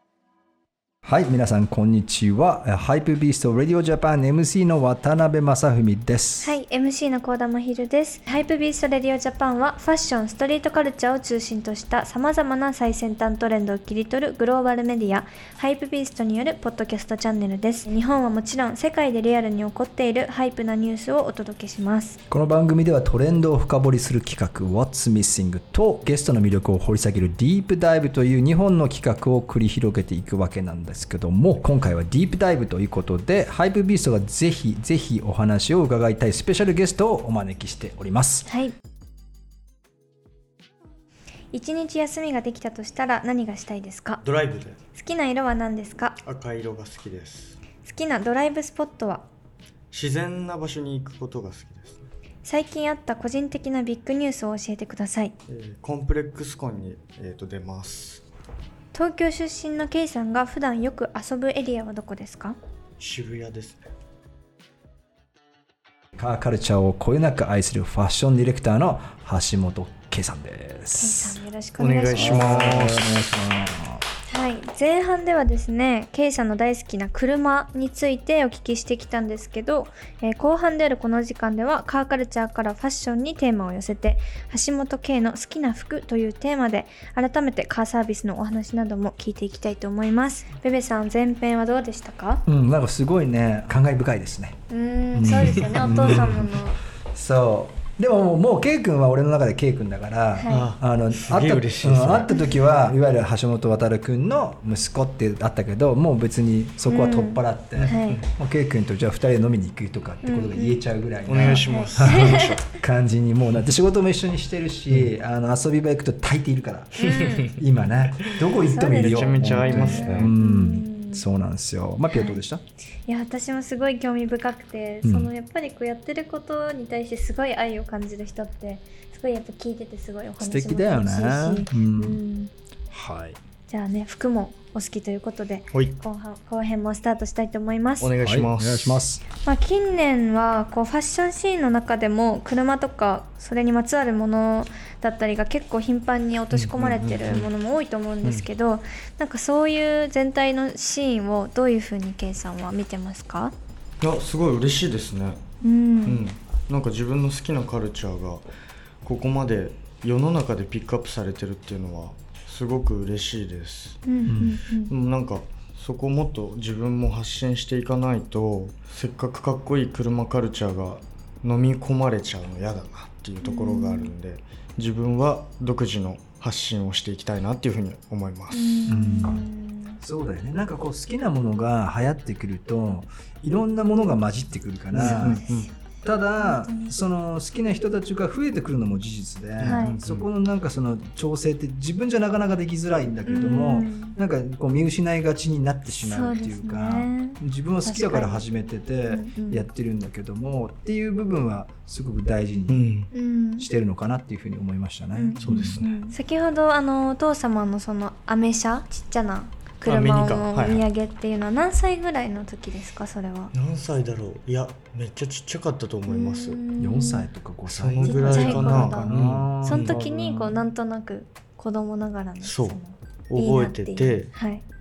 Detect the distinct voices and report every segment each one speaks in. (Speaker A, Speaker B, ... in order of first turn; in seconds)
Speaker A: 1.0-6.6, 22.3-38.5, 66.2-71.4, 72.1-74.0, 92.5-94.6, 95.1-96.5, 97.1-122.6, 125.0-125.3, 130.4-132.2, 132.9-133.4, 138.2-139.2, 164.3-164.6, 178.9-179.5, 180.0-185.4, 186.0-205.8, 216.8-220.6
Speaker B: 6.4-22.2, 38.4-38.7, 41.5-44.2, 44.9-46.2, 47.8-49.3, 52.4-55.3, 58.9-62.5, 71.0-72.8, 74.3-92.4, 94.7-96.8, 100.3-100.7, 106.8-108.2, 110.2-110.8, 111.4-112.6, 117.0-117.6, 118.6-121.2, 122.1-122.4, 123.0-132.5, 133.7-138.1, 139.4-153.5, 155.6-156.3, 164.1-164.9, 173.4-174.1, 178.5-180.0, 185.0-185.7, 186.3-187.0, 189.6-190.0, 193.2-194.1, 195.9-198.4, 199.1-199.6, 203.1-203.7, 205.1-213.5, 216.1-217.3, 218.0-224.6
Speaker C: 44.2-44.8, 46.2-47.6, 49.9-52.0, 55.5-58.2, 63.0-63.8, 71.8-73.3, 95.5-96.2, 100.5-102.4, 107.8-108.2, 111.2-112.7, 117.0-117.5, 118.4-120.3, 135.7-136.0, 138.0-139.0, 146.5-147.5, 154.0-155.4, 156.0-158.4, 159.0-164.0, 164.9-179.3, 184.9-185.7, 189.6-190.3, 202.7-203.1, 205.4-206.1, 209.8-210.8, 213.5-216.6, 217.7-220.0, 222.4-222.8, 223.3-224.3